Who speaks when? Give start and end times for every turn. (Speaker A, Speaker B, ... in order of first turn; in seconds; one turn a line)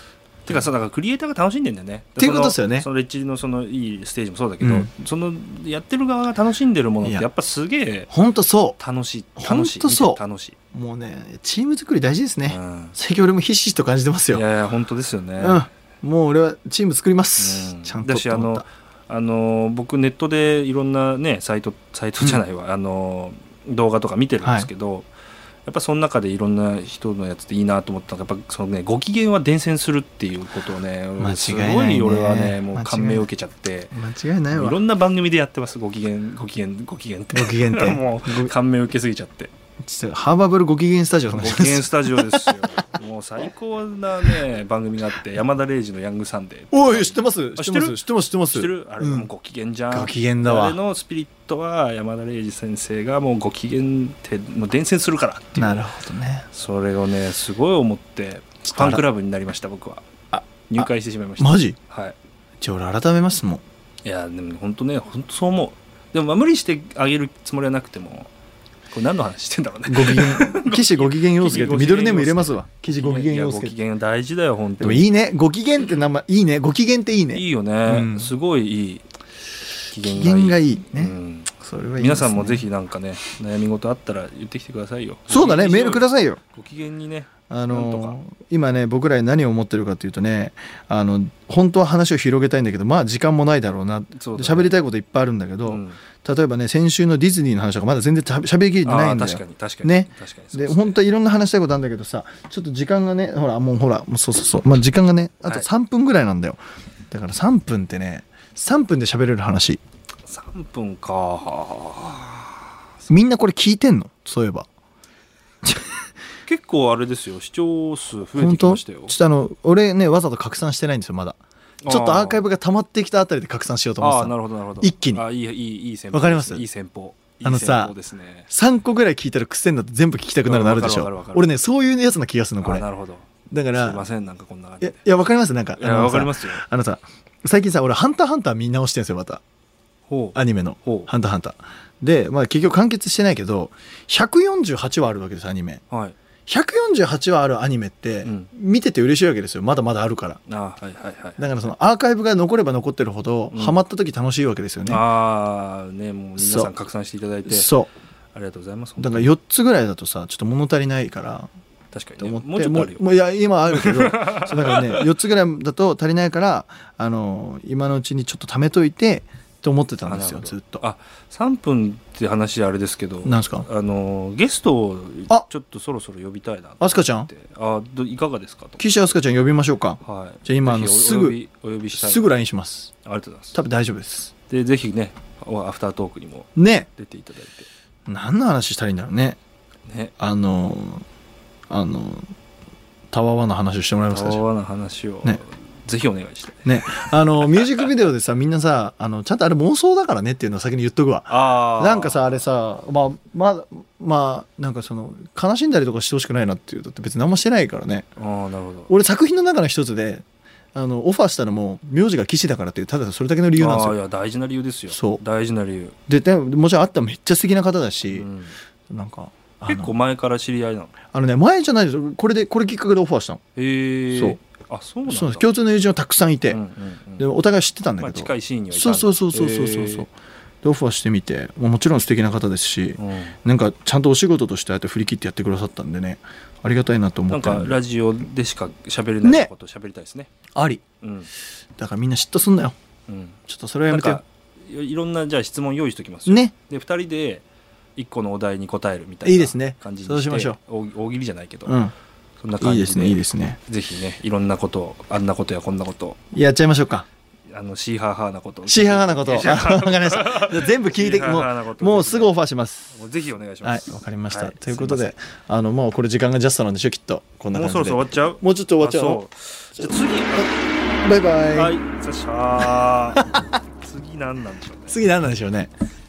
Speaker A: 0.5-8.1
Speaker B: 2.2-2.9
Speaker B: 4.6-4.9
Speaker B: 8.1-8.8
Speaker A: 8.8-10.6
Speaker B: 9.4-10.2
Speaker B: 10.7-14.4
Speaker A: 12.5-12.9
Speaker A: 14.3-15.7
Speaker B: 15.4-18.6
Speaker A: 17.4-25.1
Speaker B: 24.4-24.7
Speaker A: 25.6-33.9
Speaker B: 31.2-33.3
Speaker B: 33.9-34.8
Speaker A: 34.5-39.5
Speaker B: 37.3-38.5
Speaker B: 39.8-42.7
Speaker A: 41.3-55.8
Speaker B: 46.7-49.3
Speaker B: 49.9-50.8
Speaker B: 55.5-56.5
Speaker A: 56.5-60.0
Speaker B: 58.7-59.0
Speaker B: 60.3-61.8
Speaker A: 60.7-62.2
Speaker B: 62.6-63.6
Speaker A: 64.0-68.3
Speaker A: 68.9-75.1
Speaker B: 69.9-73.7
Speaker B: 74.8-78.3
Speaker A: 77.3-79.0
Speaker A: 79.9-88.2
Speaker B: 80.0-82.7
Speaker B: 85.3-86.4
Speaker B: 87.5-109.8
Speaker A: 94.1-94.8
Speaker A: 95.7-96.0
Speaker A: 98.8-101.0
Speaker A: 110.2-112.7
Speaker B: 113.1-114.7
Speaker A: 116.5-119.1
Speaker B: 118.3-125.2
Speaker A: 121.8-122.4
Speaker A: 124.0-128.5
Speaker B: 126.1-126.7
Speaker B: 127.4-127.9
Speaker B: 128.5-132.9
Speaker A: 130.4-131.6
Speaker A: 132.6-135.0
Speaker B: 133.5-134.0
Speaker B: 134.8-139.4
Speaker A: 135.8-136.6
Speaker A: 140.1-141.1
Speaker B: 140.3-145.8
Speaker A: 145.9-146.2
Speaker B: 146.5-150.4
Speaker A: 148.2-148.5
Speaker A: 150.5-151.5
Speaker B: 151.4-155.0
Speaker A: 153.5-153.8
Speaker A: 154.8-157.7
Speaker B: 156.4-156.7
Speaker B: 157.4-157.9
Speaker A: 158.3-159.3
Speaker B: 159.0-161.5
Speaker A: 161.9-163.0
Speaker B: 162.2-170.8
Speaker A: 163.7-165.1
Speaker A: 170.1-178.9
Speaker B: 173.2-173.7
Speaker B: 176.8-177.3
Speaker B: 178.8-181.4
Speaker A: 180.0-182.3
Speaker B: 181.9-182.9
Speaker A: 183.0-183.6
Speaker B: 183.5-184.3
Speaker A: 184.5-187.7
Speaker B: 186.6-186.9
Speaker B: 188.1-189.4
Speaker A: 189.9-190.1
Speaker B: 190.2-191.0
Speaker B: 191.7-192.3
Speaker B: 193.1-194.4
Speaker A: 194.1-197.9
Speaker B: 196.6-208.1
Speaker A: 201.3-202.4
Speaker A: 208.2-208.9
Speaker B: 208.9-214.0
Speaker A: 213.6-215.9
Speaker B: 214.9-215.2
Speaker B: 216.1-218.3
Speaker A: 218.1-218.5
Speaker B: 218.9-219.9
Speaker A: 219.7-220.9
Speaker B: 221.1-223.4
Speaker A: 223.6-225.5
Speaker B: 224.1-224.4
Speaker B: 225.1-226.6
Speaker A: 226.5-227.2
Speaker B: 227.2-237.8
Speaker A: 228.0-230.1
Speaker A: 233.0-233.4
Speaker A: 237.3-240.3
Speaker B: 239.2-239.5
Speaker B: 240.5-240.8
Speaker A: 241.0-241.3
Speaker B: 241.8-242.7
Speaker A: 243.1-251.8
Speaker B: 243.5-244.2
Speaker B: 246.3-246.5
Speaker B: 249.2-250.6
Speaker B: 251.7-251.9
Speaker A: 252.4-256.2
Speaker B: 252.6-253.6
Speaker B: 256.3-257.1
Speaker A: 257.5-262.4
Speaker B: 258.6-262.9
Speaker A: 262.9-265.1
Speaker B: 263.6-269.2
Speaker A: 267.5-270.6
Speaker B: 269.8-271.8
Speaker A: 271.5-275.0
Speaker B: 273.1-273.4
Speaker B: 274.9-275.7